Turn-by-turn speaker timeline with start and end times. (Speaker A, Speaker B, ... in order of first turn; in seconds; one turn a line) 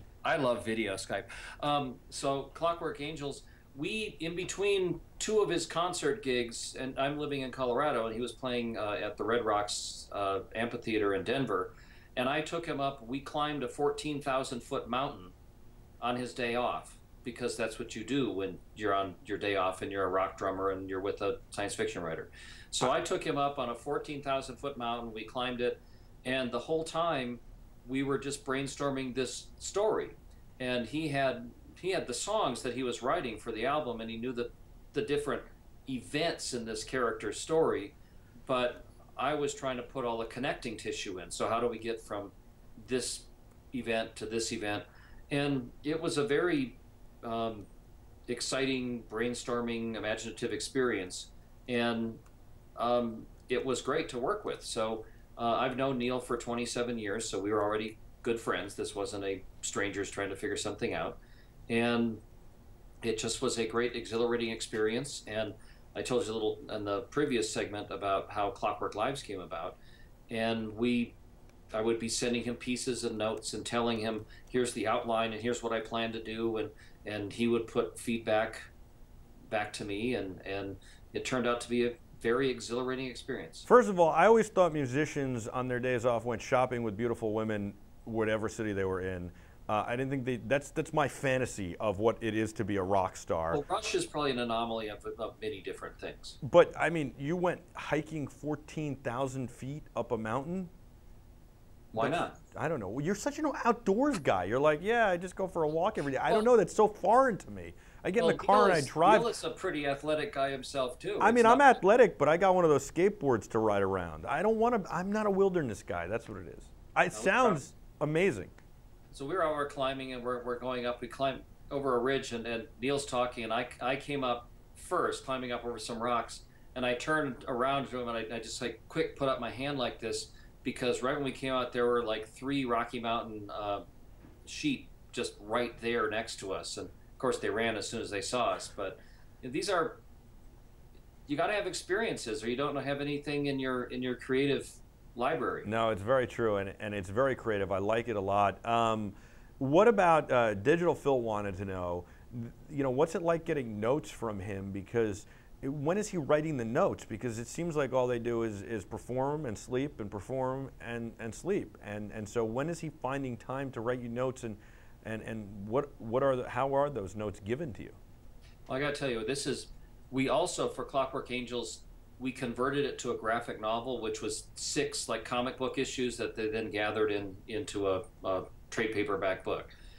Speaker A: 0.2-15.3
Speaker A: 16.0-38.0
Speaker A: 38.5-47.7
Speaker A: 48.3-52.2
Speaker A: 52.8-61.2
Speaker A: 61.7-62.2
Speaker A: 63.0-69.8
Speaker A: 70.3-71.2
Speaker A: 71.7-78.6
Speaker A: 79.5-83.7
Speaker B: 83.7-93.6
Speaker A: 93.5-96.3
Speaker B: 96.4-100.7
Speaker A: 101.9-102.3
Speaker B: 102.0-109.3
Speaker A: 108.2-111.8
Speaker B: 111.2-118.5
Speaker A: 117.1-117.6
Speaker A: 119.1-133.8
Speaker A: 134.4-140.0
Speaker A: 141.3-145.7
Speaker B: 145.6-168.0
Speaker A: 168.7-179.7